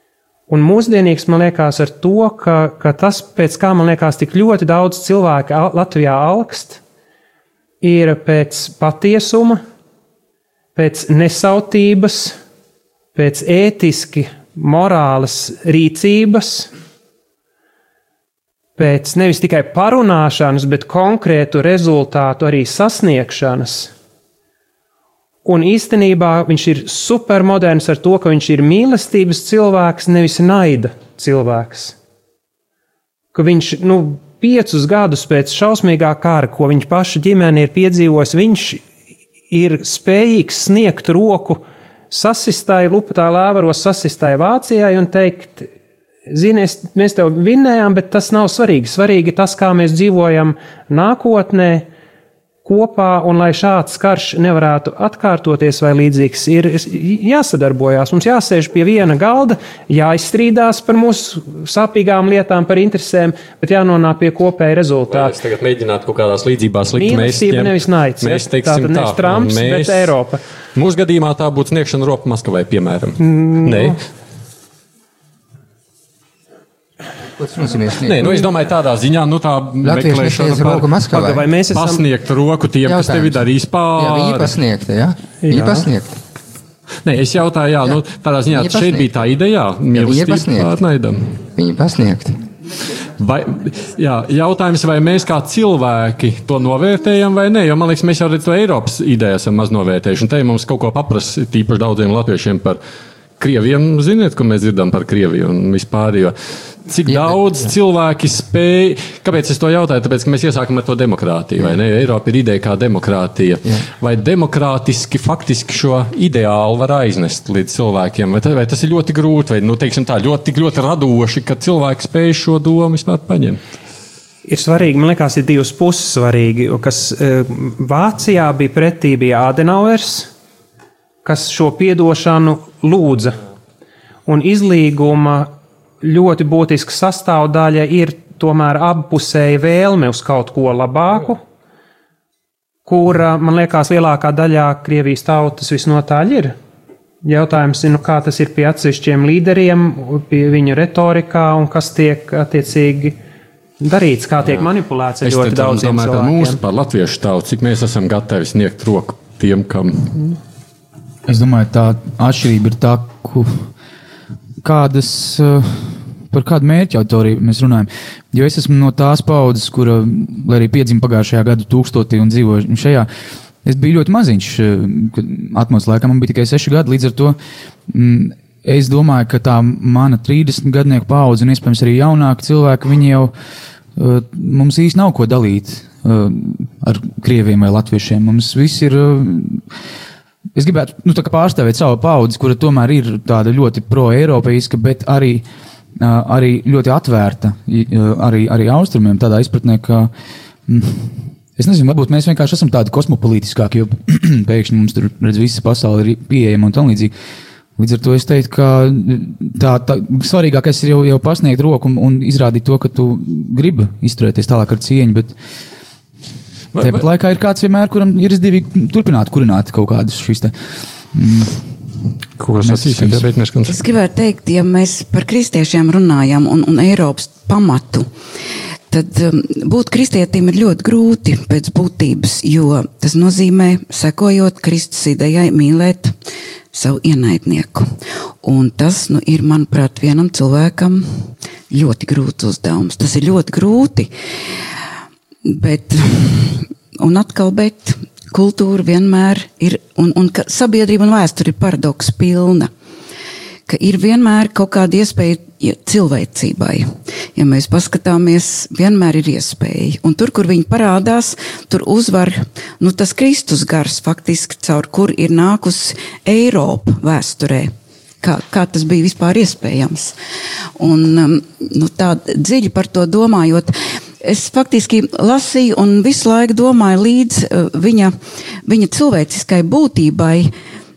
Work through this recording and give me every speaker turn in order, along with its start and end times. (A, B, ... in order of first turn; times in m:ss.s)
0:00.5-0:06.8 A
0:07.8-0:09.6 A
0:10.8-0:12.4 A
0:13.2-0:16.7 A
0:18.8-0:23.9 A
0:25.4-0:32.0 A
0:33.3-0:38.8 A
0:39.5-0:45.7 A
0:46.3-0:51.9 A
0:52.6-1:05.4 A
1:05.1-1:10.2 B
1:07.0-1:10.4 A
1:10.8-1:14.0 B
1:13.2-1:14.0 A
1:17.4-1:18.4 C
1:18.0-1:20.9 B
1:19.8-1:21.5 C
1:21.1-1:22.0 A
1:21.7-1:24.6 B
1:22.8-1:23.5 C
1:24.0-1:26.2 C
1:25.4-1:25.8 A
1:27.0-1:31.4 B
1:28.5-1:29.1 C
1:29.9-1:30.7 C
1:31.6-1:32.4 C
1:33.2-1:42.8 B
1:43.4-1:46.4 B
1:46.9-2:03.6 B
1:47.1-1:47.3 C
2:04.5-2:10.3 A
2:11.2-2:13.4 A
2:14.3-2:21.4 A
2:22.9-2:26.6 A
2:27.2-2:33.2 A
2:33.8-2:36.6 A
2:35.2-2:40.3 B
2:41.3-2:43.7 D
2:44.6-2:53.1 D
2:53.6-2:57.4 D
2:57.9-3:03.3 D
3:04.0-3:09.6 D
3:10.6-3:15.4 D
3:16.0-3:20.1 D
3:20.7-3:27.1 D
3:27.8-3:35.3 D
3:36.7-3:37.0 B
3:36.8-3:40.5 D
3:41.1-3:41.7 D
3:42.4-3:43.8 B
3:42.6-3:43.3 D
3:43.7-3:48.1 E
3:48.9-3:56.2 E
3:56.7-3:57.9 E
3:58.4-4:04.1 E
4:05.5-4:12.7 E
4:13.7-4:30.2 E
4:30.8-4:40.5 E